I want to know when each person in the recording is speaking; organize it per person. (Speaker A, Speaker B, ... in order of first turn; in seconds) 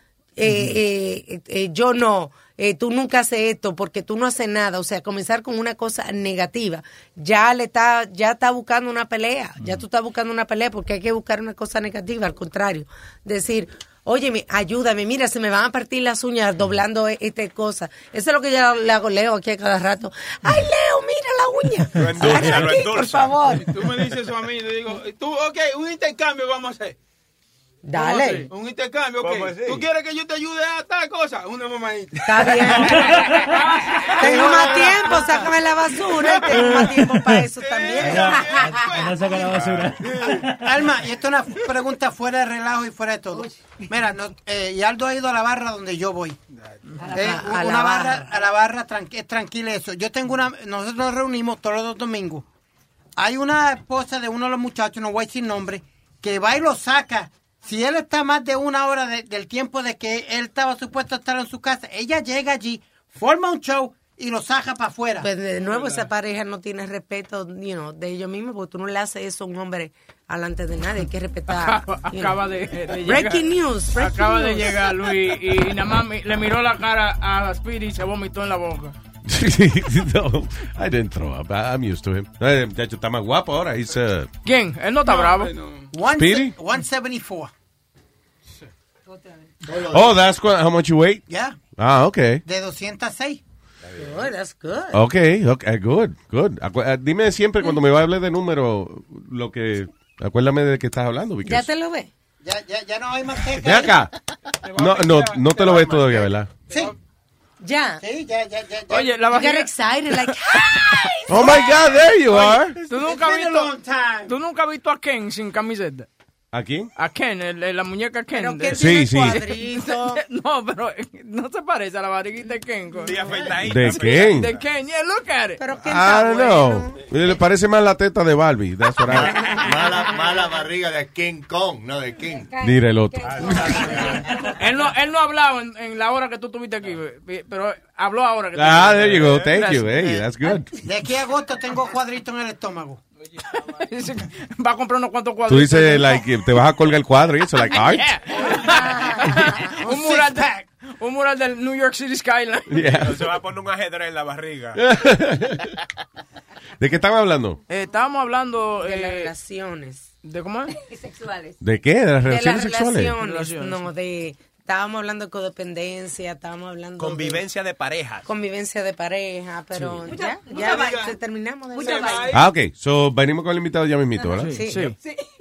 Speaker A: 0.4-23.7, 27.8-28.5, 32.3-33.3, 34.2-38.8, 47.1-48.3, 65.2-72.4, 73.0-74.8, 94.0-95.0, 101.4-102.1, 107.6-108.0, 109.3-111.0, 118.3-120.2, 125.6-126.9, 148.7-149.7, 158.8-160.1, 162.2-167.4, 168.2-172.3, 174.5-174.9
Speaker B: 22.0-23.4, 29.2-29.9, 123.0-124.6, 133.2-133.7, 152.9-154.8, 167.0-168.3
Speaker C: 23.5-26.9, 28.5-33.0, 33.7-35.2, 37.6-39.7, 85.0-85.9, 104.6-106.9, 143.2-143.9, 170.5-171.2, 171.8-172.4
Speaker D: 27.9-28.5, 34.4-34.9, 71.6-78.9, 84.4-85.5, 108.9-109.7, 112.9-113.7, 114.2-116.1, 117.0-118.9, 119.5-125.6, 134.6-140.0, 143.9-146.2, 148.0-152.8, 157.7-159.3, 160.2-160.7, 163.2-163.8, 174.4-174.9
Speaker E: 38.0-40.6
Speaker F: 40.6-46.4, 47.1-52.4, 53.1-65.3, 85.9-87.5, 91.3-91.5, 92.4-93.4, 102.4-104.0, 106.7-106.9, 108.0-109.1, 113.0-114.3, 140.8-143.0
Speaker G: 79.3-84.3, 86.1-86.5, 89.8-91.2, 91.8-92.4, 94.9-101.7, 103.6-104.1, 104.8-106.5, 111.3-112.8, 116.5-116.9, 118.8-119.4, 123.6-124.5, 125.8-129.6, 132.6-134.0, 138.5-140.7, 145.5-148.1, 152.7-153.2, 154.8-155.7, 156.8-157.6, 161.6-163.1, 172.3-174.6
Speaker H: 129.1-132.5
Speaker I: 132.5-134.2, 160.7-161.6, 170.0-171.1, 171.7-172.3